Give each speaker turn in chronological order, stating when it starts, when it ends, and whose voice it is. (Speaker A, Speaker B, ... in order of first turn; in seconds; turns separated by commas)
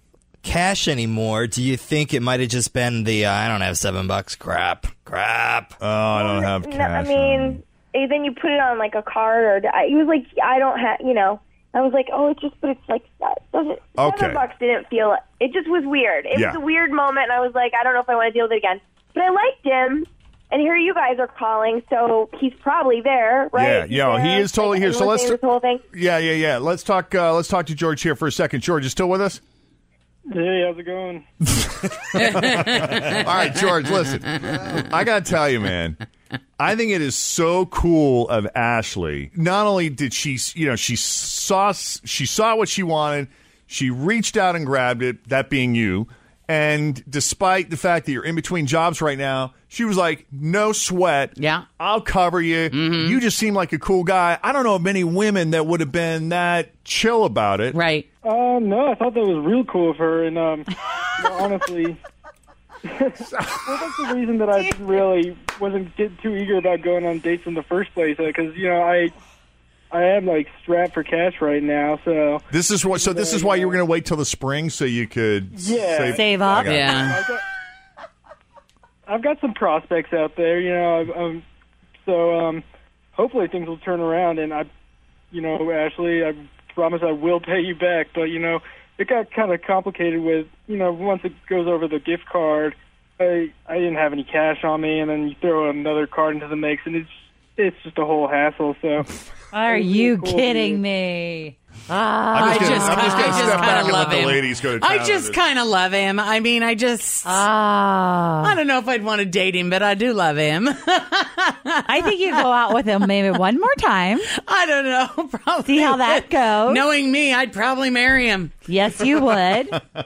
Speaker A: 0.4-5.8, Speaker B: 5.8-7.6, Speaker C: 6.1-25.8, Speaker B: 14.0-14.4, Speaker B: 16.3-16.6, Speaker B: 23.5-25.4, Speaker B: 25.9-29.4, Speaker D: 30.3-31.2, Speaker B: 31.4-36.0, Speaker E: 32.2-33.2, Speaker B: 36.6-57.8, Speaker E: 51.4-51.6, Speaker E: 52.7-53.2, Speaker E: 57.7-58.0, Speaker D: 58.2-62.0, Speaker D: 62.8-69.1, Speaker B: 63.2-63.8, Speaker D: 69.9-73.8, Speaker B: 72.5-77.2, Speaker D: 75.5-77.4, Speaker F: 76.1-76.7, Speaker E: 76.7-77.2, Speaker D: 79.1-81.4, Speaker D: 82.0-82.6, Speaker D: 83.1-84.7, Speaker D: 85.3-99.1, Speaker F: 99.5-104.2, Speaker D: 99.7-100.8, Speaker B: 102.3-105.4, Speaker E: 102.3-107.4, Speaker F: 107.2-108.5, Speaker E: 108.4-112.4, Speaker F: 111.8-114.3, Speaker E: 114.3-118.5, Speaker F: 115.6-116.8, Speaker F: 118.7-119.8